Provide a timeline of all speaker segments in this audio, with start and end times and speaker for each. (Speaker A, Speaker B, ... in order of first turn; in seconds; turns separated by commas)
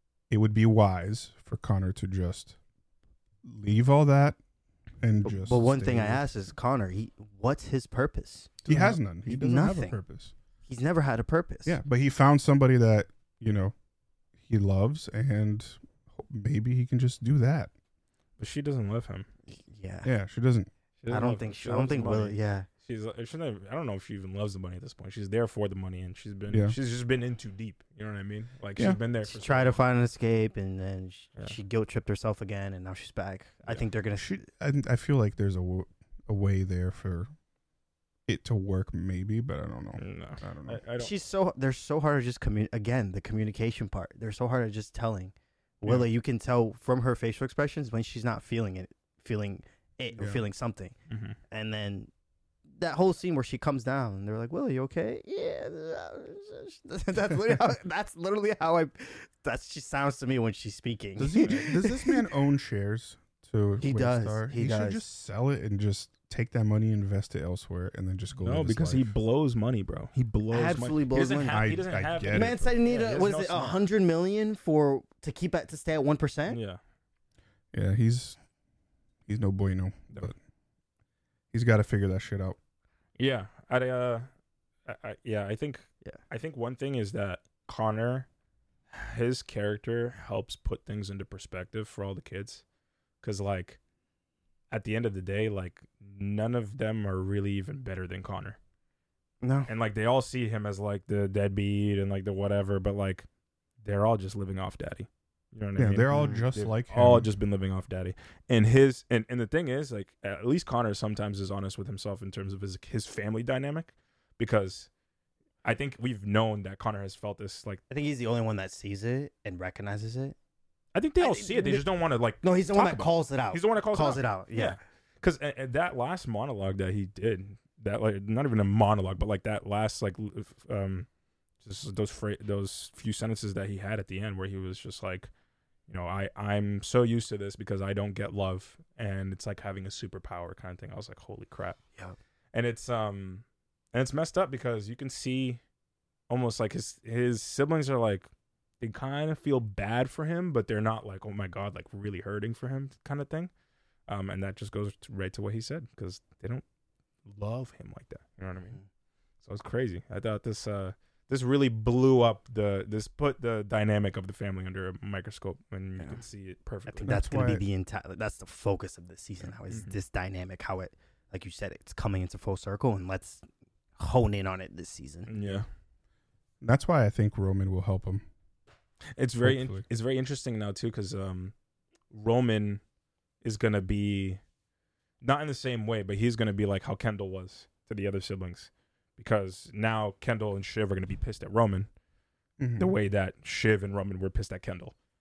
Speaker A: 0.3-2.6, Speaker A: 3.4-4.4, Speaker A: 5.0-6.2, Speaker B: 5.2-8.6, Speaker C: 8.6-9.0, Speaker A: 8.7-10.3, Speaker B: 9.2-10.0, Speaker B: 10.6-11.8, Speaker A: 11.7-13.8, Speaker A: 14.4-17.7, Speaker C: 18.4-19.3, Speaker B: 19.5-20.1, Speaker A: 20.1-20.7, Speaker C: 21.0-29.8, Speaker B: 21.1-22.7, Speaker A: 26.5-26.8, Speaker B: 29.2-34.4, Speaker A: 34.2-37.3, Speaker A: 38.3-40.8, Speaker C: 40.0-41.1, Speaker B: 41.0-51.0, Speaker A: 50.2-50.4, Speaker C: 51.1-51.4, Speaker B: 51.5-52.1, Speaker B: 52.8-62.2, Speaker A: 61.2-69.1, Speaker B: 63.8-65.0, Speaker C: 68.4-73.8, Speaker B: 70.5-71.7, Speaker A: 71.5-72.7, Speaker B: 72.3-76.6, Speaker C: 76.5-76.8, Speaker A: 77.7-78.4, Speaker A: 79.3-80.4, Speaker A: 81.5-82.6, Speaker C: 83.2-84.3, Speaker C: 84.9-88.3, Speaker C: 88.9-92.6, Speaker C: 93.2-93.8, Speaker C: 94.7-98.6, Speaker B: 99.4-99.7, Speaker C: 99.7-103.3, Speaker C: 103.8-114.9, Speaker A: 105.8-107.3, Speaker B: 106.1-106.5, Speaker C: 115.6-117.8, Speaker B: 117.9-120.3, Speaker C: 120.9-131.1, Speaker B: 121.2-121.8, Speaker B: 122.4-124.8, Speaker C: 131.6-135.3, Speaker C: 135.9-141.8, Speaker C: 142.5-145.6, Speaker C: 146.3-148.3, Speaker C: 148.8-153.5, Speaker C: 154.1-156.6, Speaker C: 157.3-158.8, Speaker C: 159.4-167.1, Speaker B: 166.9-175.3, Speaker A: 167.1-167.6, Speaker C: 169.7-170.0, Speaker C: 175.3-175.7, Speaker A: 176.6-178.2, Speaker C: 179.2-181.5, Speaker A: 179.4-179.8, Speaker C: 182.1-182.8, Speaker C: 183.4-184.4, Speaker C: 185.2-191.9, Speaker A: 192.6-193.0, Speaker C: 192.8-194.9